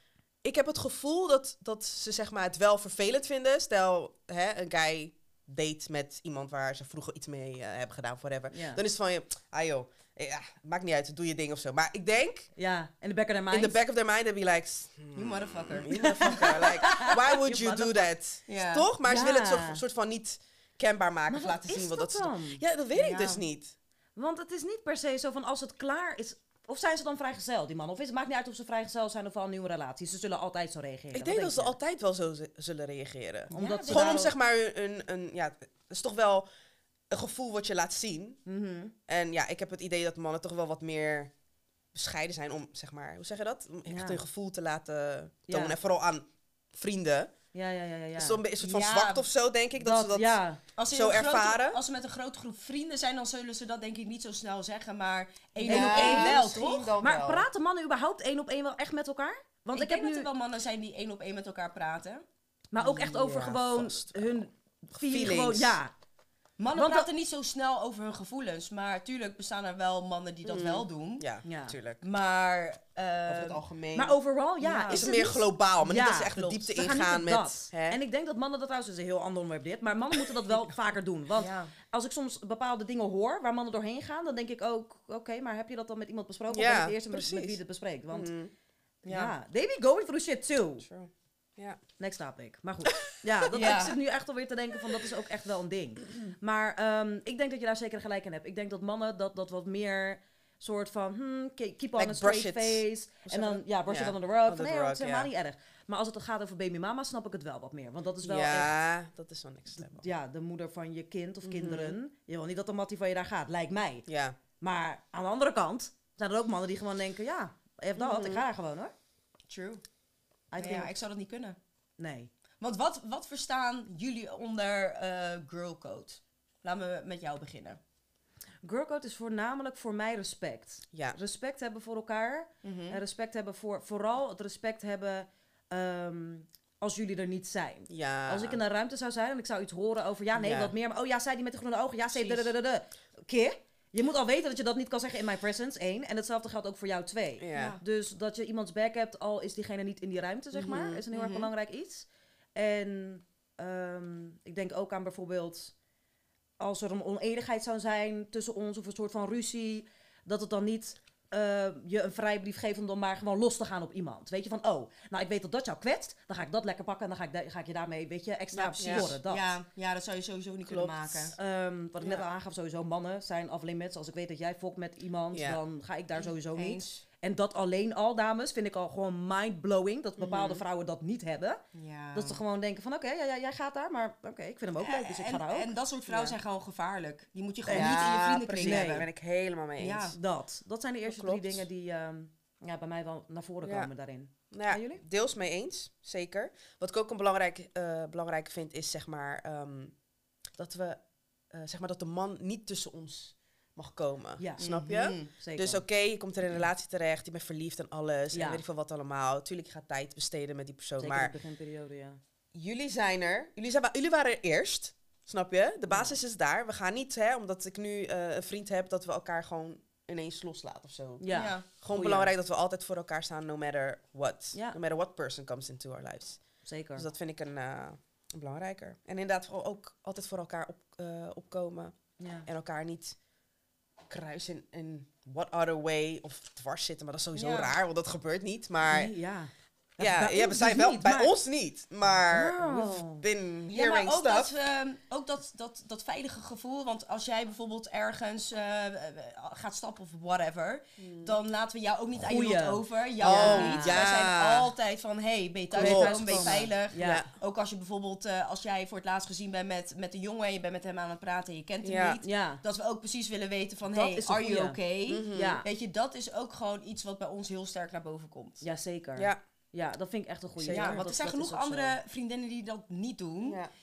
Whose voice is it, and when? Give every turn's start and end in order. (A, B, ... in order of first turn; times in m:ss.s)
0:00.4-0:12.5 A
0:08.5-0:08.8 B
0:12.6-0:13.8 B
0:13.5-0:23.7 A
0:15.1-0:18.9 C
0:15.9-0:17.1 B
0:19.0-0:19.8 B
0:21.3-0:22.6 B
0:22.9-0:23.4 C
0:24.2-0:31.8 B
0:31.1-0:36.4 A
0:33.5-0:34.3 B
0:33.5-0:34.3 C
0:37.1-0:38.4 A
0:38.4-0:38.9 B
0:39.1-0:41.3 A
0:41.9-0:47.3 A
0:43.9-0:44.2 B
0:45.5-0:45.8 B
0:47.5-0:48.4 B
0:48.2-0:50.4 A
0:48.6-0:49.2 C
0:49.8-0:50.6 B
0:50.8-0:56.9 C
0:50.9-0:51.8 A
0:55.6-0:56.4 B
0:55.6-0:57.5 A
0:57.0-1:00.3 B
0:59.7-1:02.2 C
1:02.7-1:05.9 B
1:02.8-1:05.8 A
1:06.6-1:11.3 C
1:06.7-1:07.1 B
1:10.4-1:12.0 A
1:11.4-1:11.8 B
1:12.0-1:13.6 C
1:13.2-1:14.2 A
1:13.9-1:28.3 B
1:14.6-1:15.3 C
1:14.9-1:18.0 A
1:16.3-1:16.9 C
1:21.4-1:21.7 C
1:26.5-1:27.6 A
1:28.1-1:28.5 A
1:29.0-1:30.8 B
1:29.0-1:29.3 C
1:30.8-1:31.8 A
1:32.0-1:48.8 B
1:33.5-1:33.8 A
1:33.5-1:34.0 C
1:42.0-1:45.3 A
1:48.2-1:50.1 A
1:49.8-1:54.0 B
1:51.4-1:52.0 A
1:54.1-1:54.4 A
1:54.6-1:58.9 B
1:58.0-1:58.4 A
1:59.5-1:59.8 C
2:00.5-2:00.9 B
2:00.6-2:01.6 C
2:02.0-2:02.3 B
2:02.6-2:07.8 C
2:08.6-2:35.7 B
2:12.6-2:13.0 C
2:17.9-2:18.6 A
2:20.3-2:20.7 A
2:22.1-2:22.4 C
2:27.4-2:27.8 A
2:27.5-2:27.8 C
2:30.5-2:31.4 A
2:36.6-2:49.5 B
2:48.6-2:51.4 C
2:48.8-2:49.1 A
2:50.7-2:51.3 A
2:51.3-3:01.6 B
2:55.3-2:55.6 A
2:56.2-2:57.0 C
3:00.2-3:00.6 A
3:01.7-3:02.4 C
3:02.1-3:05.7 B
3:04.8-3:09.1 C
3:06.1-3:06.4 A
3:07.6-3:09.0 B
3:07.7-3:10.2 A
3:09.8-3:10.2 C
3:10.1-3:15.0 B
3:11.0-3:11.6 A
3:13.6-3:13.9 A
3:14.5-3:19.9 A
3:20.6-3:31.3 A
3:24.4-3:24.6 B
3:24.6-3:25.3 C
3:25.3-3:25.8 B
3:28.3-3:28.6 B
3:31.0-3:32.2 B
3:32.5-3:46.4 A
3:35.9-3:36.2 B
3:41.2-3:42.3 B
3:41.3-3:41.6 C
3:46.6-3:47.1 B
3:47.0-3:51.9 A
3:52.2-3:52.5 B
3:52.4-3:53.2 A
3:54.1-3:59.1 A
3:57.3-3:57.7 C
3:58.8-4:01.3 B
4:00.0-4:04.5 A
4:02.1-4:03.2 B
4:03.7-4:28.6 C
4:11.0-4:11.4 A
4:12.2-4:14.0 B
4:13.2-4:14.7 A
4:15.7-4:17.3 A
4:15.7-4:17.3 B
4:21.8-4:22.2 A
4:22.2-4:22.6 B
4:23.9-4:24.8 B
4:25.1-4:25.6 A
4:25.3-4:25.7 B
4:28.6-4:32.0 B
4:30.6-4:31.0 A
4:30.7-4:33.6 C
4:33.4-4:33.7 A